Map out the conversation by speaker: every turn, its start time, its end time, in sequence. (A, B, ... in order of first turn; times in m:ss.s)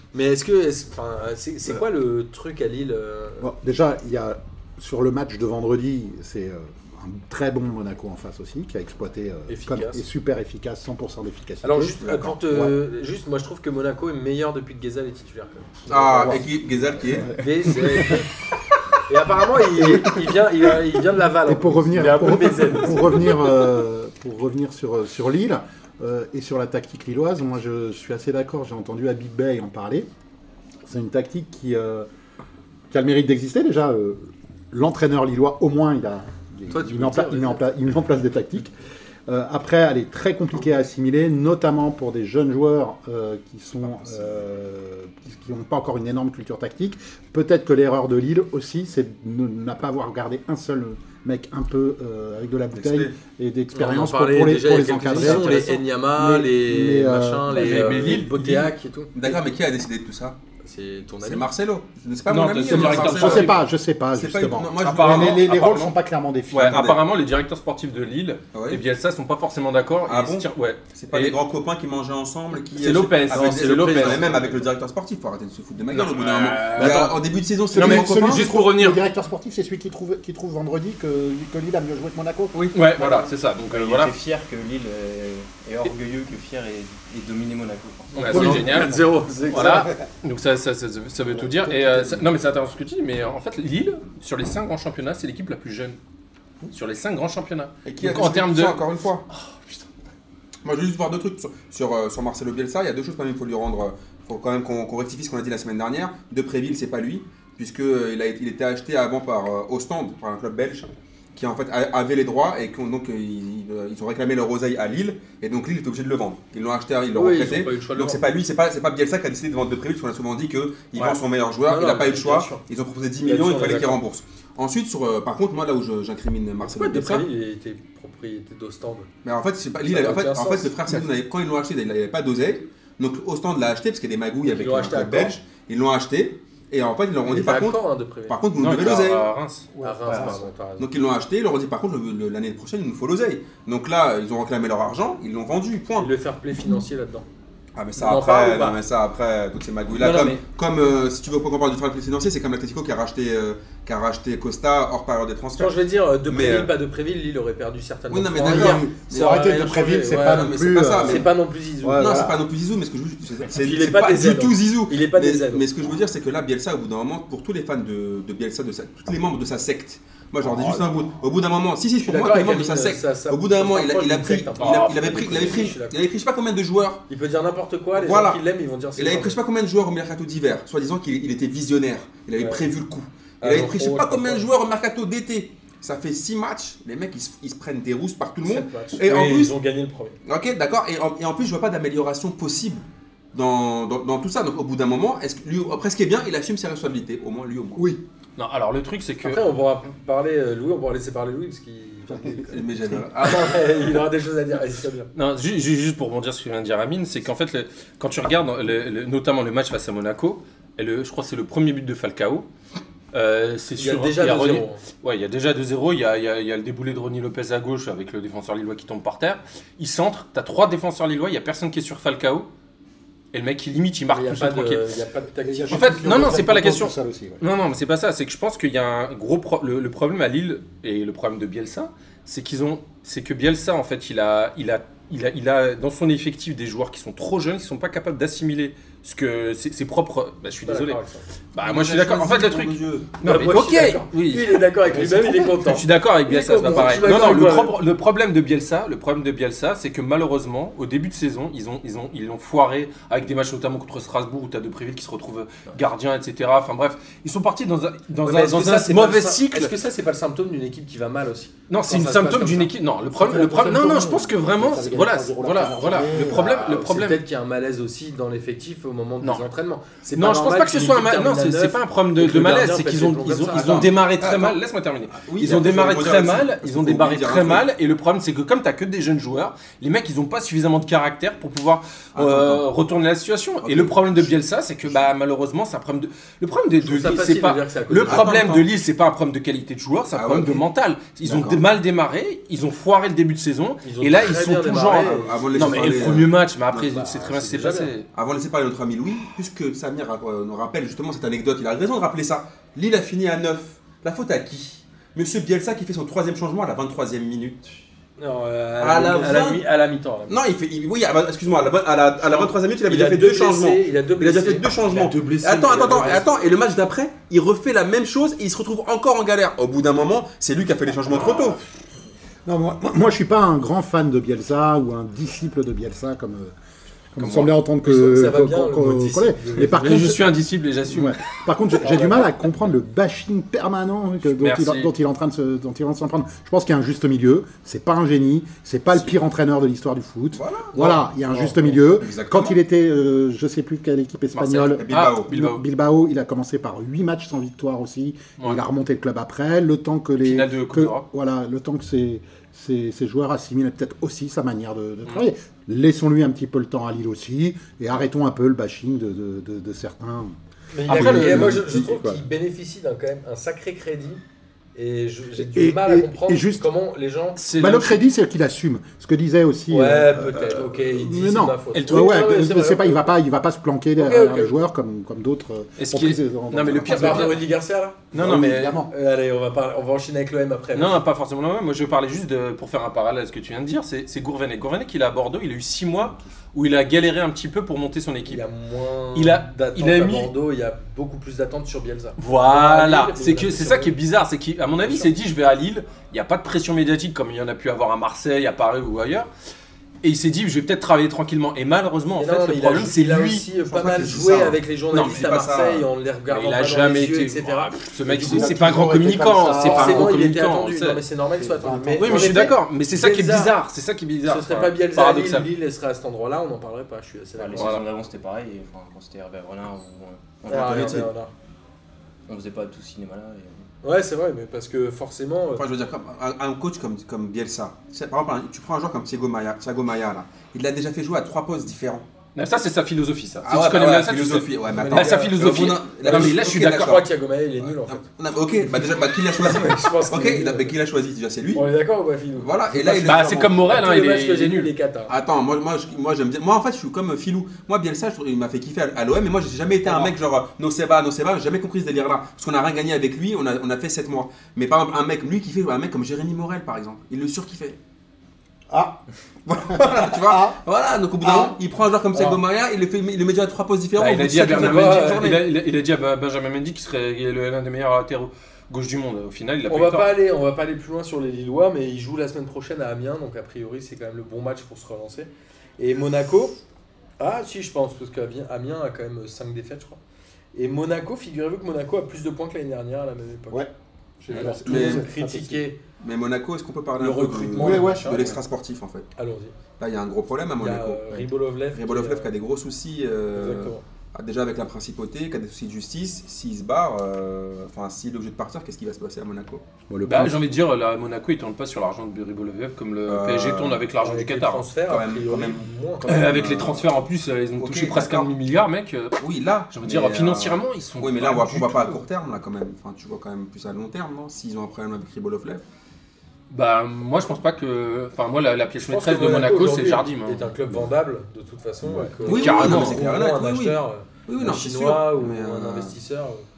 0:00.1-0:03.5 A
0:03.4-0:12.8 B
0:09.5-0:10.0 A
0:11.6-0:16.4 A
0:12.0-0:12.3 C
0:15.9-0:17.4 C
0:15.9-0:16.5 B
0:17.0-0:18.1 B
0:17.3-0:18.3 A
0:19.1-0:23.5 A
0:19.7-0:20.3 B
0:21.4-0:30.1 B
0:30.8-0:32.1 B
0:32.9-0:38.7 B
0:36.7-0:37.7 A
0:39.3-0:58.2 B
0:44.0-0:44.3 C
0:52.7-0:53.2 C
0:53.7-0:59.4 A
0:55.1-0:55.4 D
0:57.5-0:58.7 D
0:59.2-1:00.4 C
1:00.6-1:01.5 A
1:01.2-1:03.6 C
1:02.3-1:03.6 D
1:02.7-1:07.0 B
1:04.1-1:05.4 C
1:04.8-1:06.0 D
1:06.5-1:11.4 D
1:08.5-1:08.8 C
1:10.1-1:18.5 C
1:12.8-1:14.6 D
1:13.3-1:14.5 A
1:15.9-1:17.2 D
1:17.7-1:22.7 B
1:17.7-1:19.0 D
1:22.7-1:24.1 D
1:23.7-1:28.6 E
1:28.2-1:36.0 D
1:28.3-1:29.9 A
1:28.3-1:29.0 B
1:31.3-1:32.2 B
1:36.7-1:39.8 D
1:37.8-1:39.2 C
1:40.6-2:07.3 C
1:57.1-1:58.2 A
2:01.0-2:02.6 A
2:03.2-2:04.0 A
2:06.6-2:09.1 A
2:09.2-2:19.3 C
2:09.8-2:11.0 A
2:14.5-2:15.4 A
2:17.2-2:18.4 A
2:18.6-2:19.7 D
2:19.7-2:20.5 B
2:19.8-2:20.9 A
2:20.2-2:26.1 C
2:26.0-2:27.3 A
2:27.8-2:36.7 C
2:28.0-2:28.8 A
2:30.0-2:30.4 A
2:35.6-2:42.3 A
2:38.1-2:41.3 C
2:38.4-2:41.3 B
2:41.8-2:42.4 B
2:42.0-2:57.0 C
2:43.5-2:45.7 A
2:50.4-2:50.9 B
2:52.0-2:56.0 A
2:54.6-2:55.7 D
2:57.1-2:59.4 A
2:58.0-2:58.4 C
2:59.0-3:09.6 C
3:02.4-3:02.7 A
3:03.4-3:04.5 A
3:08.4-3:10.2 A
3:10.2-3:17.9 C
3:17.8-3:18.0 B
3:18.4-3:19.4 D
3:19.2-3:25.1 A
3:22.4-3:23.9 C
3:25.2-3:32.5 D
3:33.1-3:42.5 D
3:33.8-3:34.8 A
3:43.3-3:44.9 D
3:44.1-3:46.2 A
3:45.4-3:47.4 B
3:45.7-4:01.0 D
4:00.6-4:01.2 A
4:01.5-4:19.7 D
4:01.6-4:03.2 C
4:03.2-4:07.8 A
4:18.2-4:22.7 A
4:21.7-4:27.2 D
4:23.2-4:26.7 B
4:26.1-4:33.9 A
4:30.2-4:58.1 D
4:33.5-4:34.6 C
4:35.2-4:37.7 C
4:42.2-4:42.6 C
4:43.6-4:44.3 C
4:46.8-4:48.7 A
4:48.0-4:48.6 C
4:50.1-4:50.6 C
4:51.2-4:51.6 C
4:53.8-4:56.3 A
4:54.9-4:57.0 C
4:57.0-4:57.9 A
4:58.1-5:07.6 C
5:08.2-5:10.4 A
5:08.8-5:09.6 C
5:10.3-5:21.6 C
5:12.2-5:16.4 A
5:15.7-5:16.2 D
5:22.5-5:26.5 B
5:27.1-5:30.3 B
5:27.2-5:27.6 D
5:27.8-5:30.1 A
5:29.6-5:31.2 D
5:30.9-6:02.2 B
5:31.8-5:32.2 A
5:34.3-5:34.9 D
5:40.3-5:40.8 C
5:41.9-5:42.6 C
5:44.3-5:45.6 D
5:44.8-5:45.3 C
5:50.2-5:51.0 D
6:00.7-6:04.2 A
6:00.9-6:01.7 D
6:04.8-6:07.4 A
6:05.4-6:06.7 B
6:07.4-6:08.0 D
6:07.5-6:17.4 B
6:09.7-6:13.1 A
6:11.7-6:12.2 D
6:14.0-6:14.6 A
6:15.8-6:17.4 D
6:16.8-6:18.0 A
6:18.1-6:18.8 D
6:18.1-6:18.9 B
6:18.9-6:21.0 A
6:20.7-6:28.4 D
6:28.3-6:34.0 A
6:29.1-6:30.3 D
6:32.2-6:39.3 D
6:34.8-6:35.1 A
6:40.0-6:43.5 D
6:42.2-6:48.6 A
6:43.7-6:45.9 C
6:44.9-6:45.3 D
6:46.3-6:51.0 D
6:48.1-6:50.2 B
6:49.6-6:53.6 A
6:51.4-6:52.6 B
6:52.0-6:55.5 D
6:54.2-6:57.8 A
6:57.4-7:01.1 E
6:57.6-6:57.8 D
7:00.5-7:01.3 A
7:00.5-7:01.1 C
7:02.3-7:03.6 E
7:03.8-7:05.6 A
7:05.6-7:12.0 C
7:12.4-7:17.0 D
7:13.4-7:17.0 C
7:14.7-7:18.0 A
7:17.6-7:21.7 C
7:19.3-7:20.8 A
7:21.5-7:22.5 A
7:22.4-7:23.5 C
7:22.7-7:23.5 B
7:22.9-7:24.7 D
7:23.6-7:25.1 A
7:25.1-7:37.8 C
7:29.9-7:30.1 A
7:38.7-7:39.0 B
7:39.5-7:45.5 C
7:39.7-7:40.6 B
7:42.1-7:42.4 A
7:44.0-7:50.1 D
7:44.5-7:45.2 A
7:49.7-7:56.6 A
7:57.2-8:00.0 A
8:00.5-8:03.7 A
8:03.5-8:05.6 B
8:04.3-8:05.8 A
8:04.6-8:05.1 C
8:06.0-8:09.1 C
8:07.0-8:08.4 A
8:07.6-8:08.3 B
8:09.2-8:09.5 A
8:09.8-8:19.6 C
8:10.6-8:12.3 A
8:13.3-8:13.8 A
8:19.9-8:20.4 B
8:20.0-8:24.7 D
8:23.1-8:23.8 C
8:24.0-8:26.3 A
8:24.9-8:26.9 C
8:26.0-8:29.2 D
8:27.6-8:28.3 C
8:29.2-8:35.6 C
8:29.7-8:32.0 D
8:36.5-8:40.5 D
8:38.8-8:46.4 A
8:41.8-8:42.3 B
8:42.2-8:43.1 D
8:42.2-8:46.0 C